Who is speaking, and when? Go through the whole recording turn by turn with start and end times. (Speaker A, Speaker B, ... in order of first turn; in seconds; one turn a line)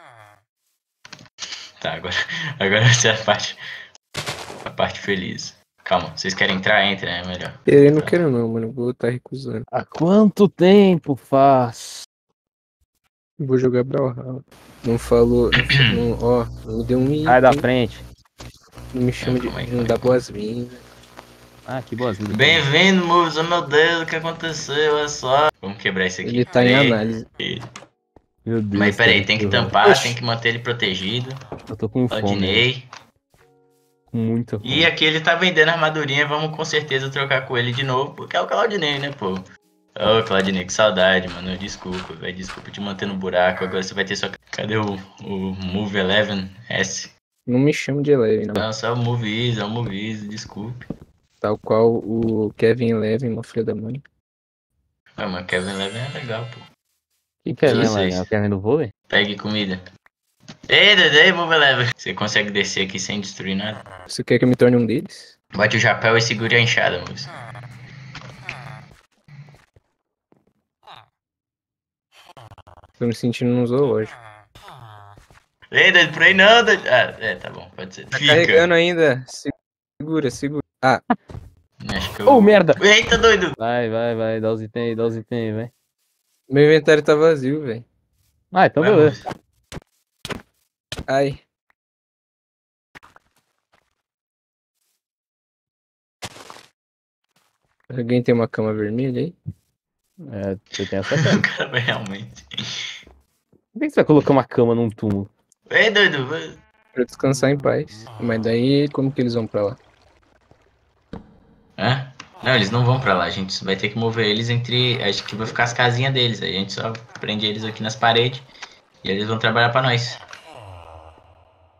Speaker A: 1.8-3.6
Speaker A: 4.7-8.2
Speaker B: 7.7-9.7
Speaker C: 9.7-12.0
Speaker B: 13.4-17.6
Speaker A: 15.5-16.0
Speaker C: 17.2-18.0
Speaker B: 18.9-20.8
Speaker A: 19.2-20.2
Speaker C: 21.6-22.6
Speaker A: 22.3-27.7
Speaker B: 26.2-27.2
Speaker C: 28.4-30.1
Speaker A: 28.7-31.4
Speaker C: 31.7-32.6
Speaker A: 32.1-32.8
Speaker C: 34.1-34.9
Speaker A: 34.6-39.4
Speaker A: 40.0-47.1
Speaker B: 47.5-48.7
Speaker A: 48.5-50.8
Speaker B: 51.4-54.0
Speaker A: 55.2-56.6
Speaker C: 57.4-58.9
Speaker A: 57.6-58.2
Speaker A: 59.1-59.8
Speaker A: 60.7-63.8
Speaker B: 64.1-65.3
Speaker A: 65.5-67.3
Speaker B: 73.0-74.1
Speaker A: 75.7-78.7
Speaker B: 78.2-81.0
Speaker A: 81.8-83.5
Speaker C: 82.3-82.8
Speaker C: 83.6-85.7
Speaker B: 86.5-87.8
Speaker C: 88.5-89.2
Speaker A: 88.8-89.2
Speaker B: 91.1-91.4
Speaker B: 97.9-99.3
Speaker C: 100.2-101.4
Speaker A: 101.1-102.4
Speaker C: 103.7-105.3
Speaker A: 105.7-106.6
Speaker B: 107.0-109.8
Speaker A: 111.8-118.5
Speaker A: 119.0-120.2